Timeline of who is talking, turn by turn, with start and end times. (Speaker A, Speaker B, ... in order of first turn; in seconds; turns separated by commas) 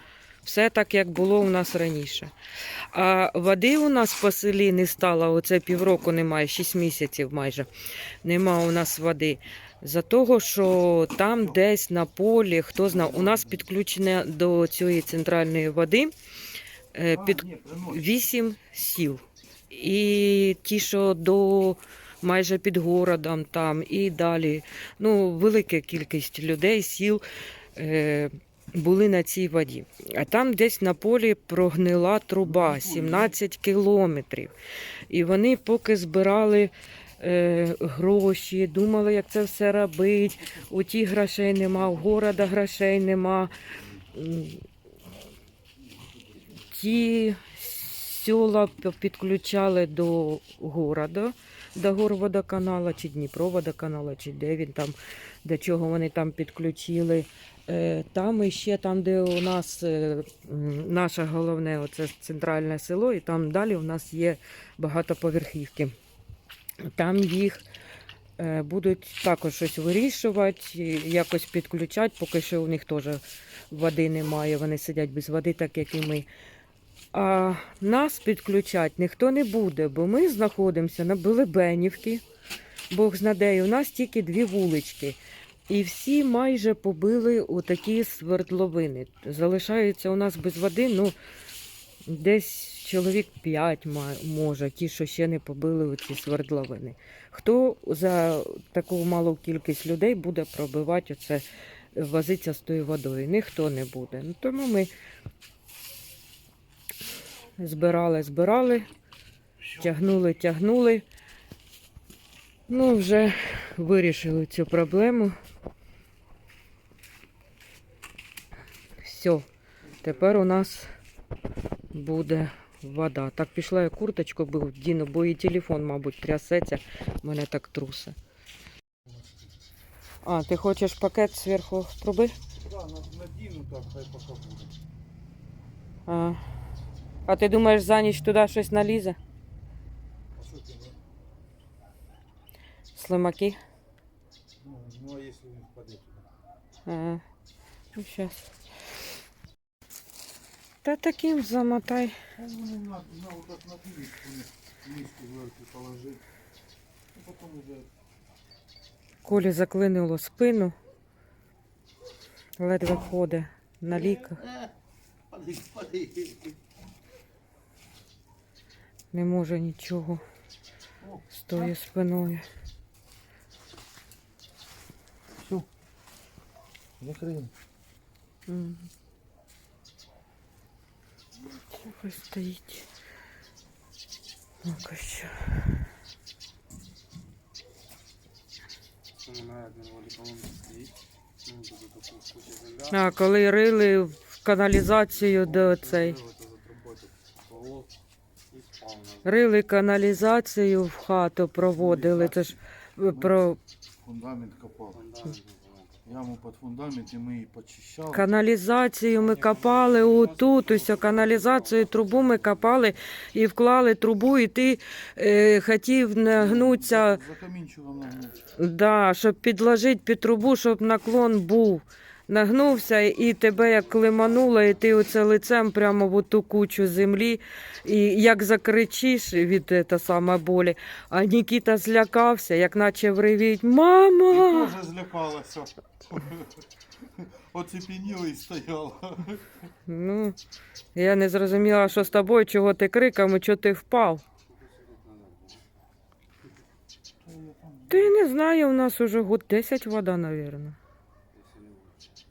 Speaker A: 0.4-2.3, Speaker A: 2.9-7.7, Speaker A: 8.2-16.1, Speaker B: 12.9-13.6, Speaker A: 16.9-27.2, Speaker B: 17.1-18.3, Speaker A: 27.8-34.5, Speaker B: 32.4-33.3, Speaker A: 35.1-44.6, Speaker A: 46.5-65.9, Speaker A: 66.9-67.6, Speaker A: 68.4-76.3, Speaker A: 77.1-82.2, Speaker A: 82.9-91.2, Speaker A: 92.0-104.9, Speaker A: 107.6-108.9, Speaker A: 109.7-111.0, Speaker A: 112.7-115.3, Speaker A: 119.0-119.5, Speaker A: 120.0-120.9, Speaker A: 121.9-128.2, Speaker A: 130.2-132.3, Speaker B: 132.6-134.7, Speaker A: 136.1-136.4, Speaker A: 137.2-139.2, Speaker B: 140.3-141.0, Speaker A: 142.9-143.6, Speaker B: 144.6-146.2, Speaker A: 146.8-147.2, Speaker A: 147.9-148.4, Speaker A: 150.8-152.2, Speaker B: 152.3-156.2, Speaker B: 157.1-157.9, Speaker A: 159.2-160.7, Speaker A: 162.6-164.4, Speaker B: 164.1-164.7, Speaker B: 165.3-166.5, Speaker A: 169.1-170.2, Speaker B: 171.0-171.7, Speaker A: 171.3-172.4, Speaker B: 175.4-175.7, Speaker B: 177.0-177.5, Speaker A: 178.5-178.9, Speaker A: 181.7-182.8, Speaker A: 184.6-185.6, Speaker C: 189.2-193.0, Speaker A: 192.9-196.2, Speaker C: 195.6-197.9, Speaker C: 198.5-199.2, Speaker A: 199.2-203.6, Speaker B: 201.7-202.6, Speaker B: 203.1-203.4, Speaker B: 204.0-205.1, Speaker C: 204.9-206.0, Speaker B: 206.1-208.2, Speaker A: 208.1-217.2, Speaker C: 209.3-212.3, Speaker B: 216.3-218.4, Speaker A: 218.6-234.8, Speaker B: 234.3-239.6, Speaker A: 239.9-240.4, Speaker A: 240.9-244.2, Speaker C: 244.5-245.6, Speaker B: 247.2-248.2, Speaker A: 247.9-250.8, Speaker C: 251.3-252.0